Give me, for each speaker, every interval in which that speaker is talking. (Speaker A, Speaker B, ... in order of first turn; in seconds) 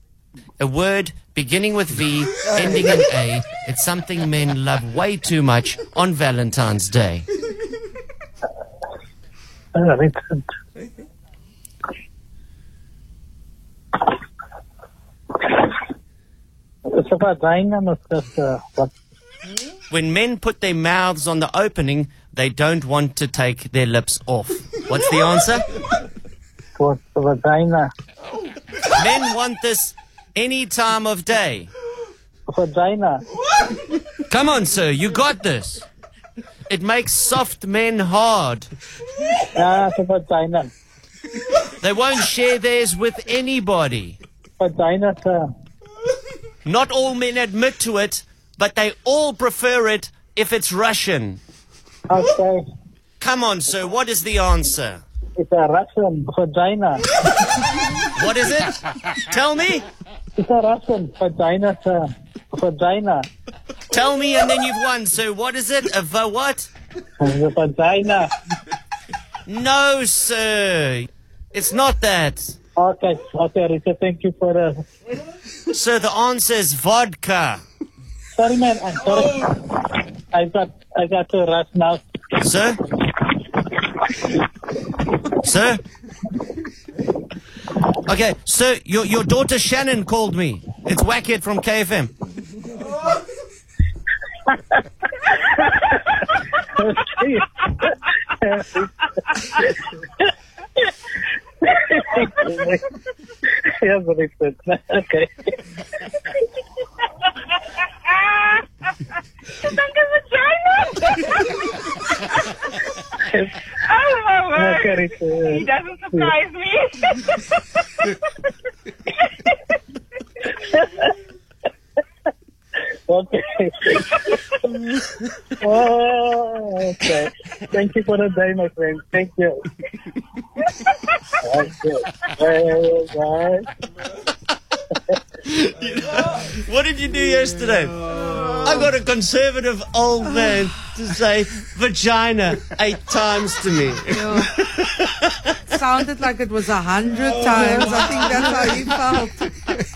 Speaker A: 0.6-7.2, 19.9-25.7, 28.9-31.7, 34.3-35.9, 36.7-38.7, 41.8-44.2, 46.6-51.4, 53.2-55.0, 58.1-59.9, 63.9-66.7, 69.5-72.5, 75.7-77.6, 82.4-82.8, 85.4-85.8, 88.1-92.1, 135.4-138.0, 138.6-145.6
Speaker B: 9.7-10.4, 16.9-18.9, 26.8-27.9, 32.5-33.2, 39.5-40.7, 44.6-45.5, 52.1-52.6, 55.4-57.0, 60.4-63.3, 67.2-68.3, 72.8-74.8, 78.3-79.6, 80.3-82.0, 95.7-99.9, 101.6-102.9, 103.5-105.6, 113.1-113.5, 114.5-116.3, 123.1-124.3, 125.4-129.7, 131.3-133.7
Speaker C: 107.8-108.7, 109.5-112.5, 113.8-118.2
Speaker D: 144.1-144.6, 145.7-149.5